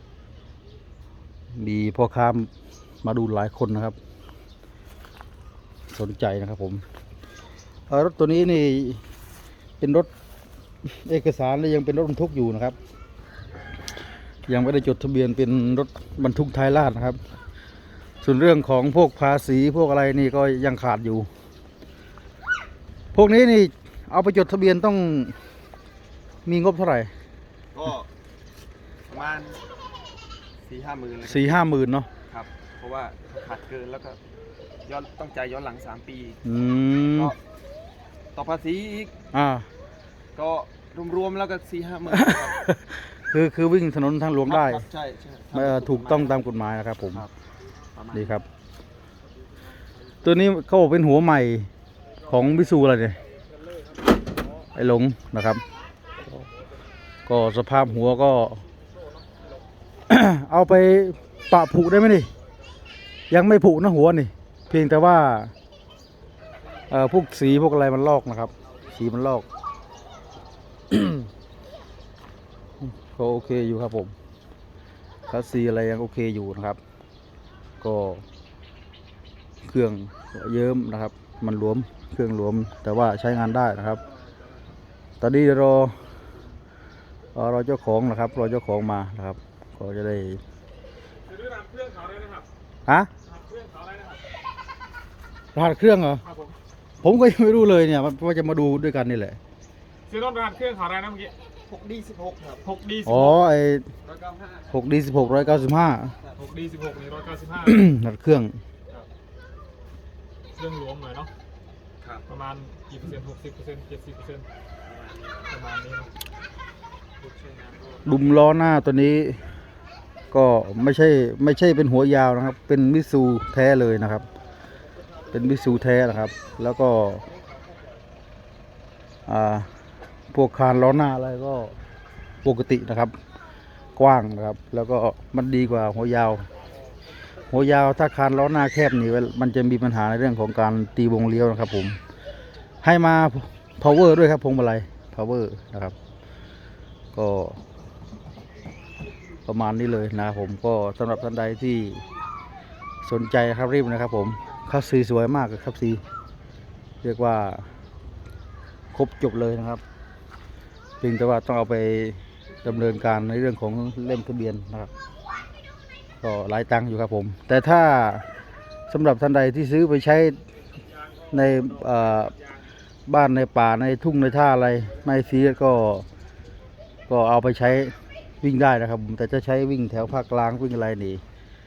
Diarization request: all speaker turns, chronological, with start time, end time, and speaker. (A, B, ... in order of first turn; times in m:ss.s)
0:01.5-0:02.5 A
0:03.0-0:04.0 A
0:05.9-0:06.8 A
0:07.9-0:09.0 A
0:09.8-0:10.1 A
0:10.8-0:12.8 A
0:14.5-0:17.2 A
0:18.2-0:21.3 A
0:23.1-0:25.4 A
0:26.4-0:27.1 A
0:27.7-0:28.1 B
0:29.0-0:29.6 B
0:30.6-0:31.6 B
0:31.2-0:32.1 A
0:32.3-0:34.2 B
0:34.8-0:36.4 B
0:36.4-0:37.3 A
0:38.3-0:39.1 B
0:39.3-0:39.6 A
0:40.3-0:42.6 B
0:42.1-0:44.8 A
0:44.4-0:46.4 B
0:45.5-0:47.2 A
0:47.9-0:48.4 B
0:48.1-0:48.4 A
0:50.2-0:51.7 A
0:52.2-0:53.2 A
0:54.7-0:55.6 A
0:57.2-0:58.6 A
1:00.1-1:02.3 A
1:03.3-1:05.5 A
1:06.9-1:09.4 A
1:10.9-1:11.3 A
1:12.8-1:14.1 A
1:15.3-1:16.8 A
1:17.8-1:18.2 A
1:19.6-1:24.0 A
1:25.2-1:26.0 A
1:27.3-1:30.4 A
1:31.3-1:32.4 C
1:33.2-1:34.2 C
1:35.5-1:36.2 A
1:36.2-1:36.5 C
1:37.0-1:39.4 A
1:40.1-1:41.3 C
1:41.6-1:42.6 B
1:42.6-1:43.4 C
1:43.0-1:43.9 A
1:44.0-1:44.8 B
1:44.7-1:46.1 A
1:46.4-1:47.8 C
1:47.6-1:48.6 A
1:50.5-1:51.3 C
1:52.3-1:54.4 C
1:54.8-1:55.4 B
1:55.5-1:56.1 C
1:58.0-1:59.4 A
2:00.3-2:04.2 A
2:05.3-2:07.2 A
2:09.3-2:09.7 A
2:10.3-2:11.7 A
2:12.4-2:13.1 A
2:14.0-2:16.5 A
2:17.5-2:22.0 A
2:22.8-2:25.9 A
2:27.1-2:27.6 A
2:29.4-2:32.0 A
2:33.0-2:36.0 A
2:37.0-2:37.6 A
2:38.9-2:39.8 A
2:41.0-2:44.9 A
2:46.2-2:48.2 A
2:48.9-2:50.4 A
2:51.3-2:52.3 A
2:53.0-2:56.0 A
2:57.1-3:01.2 A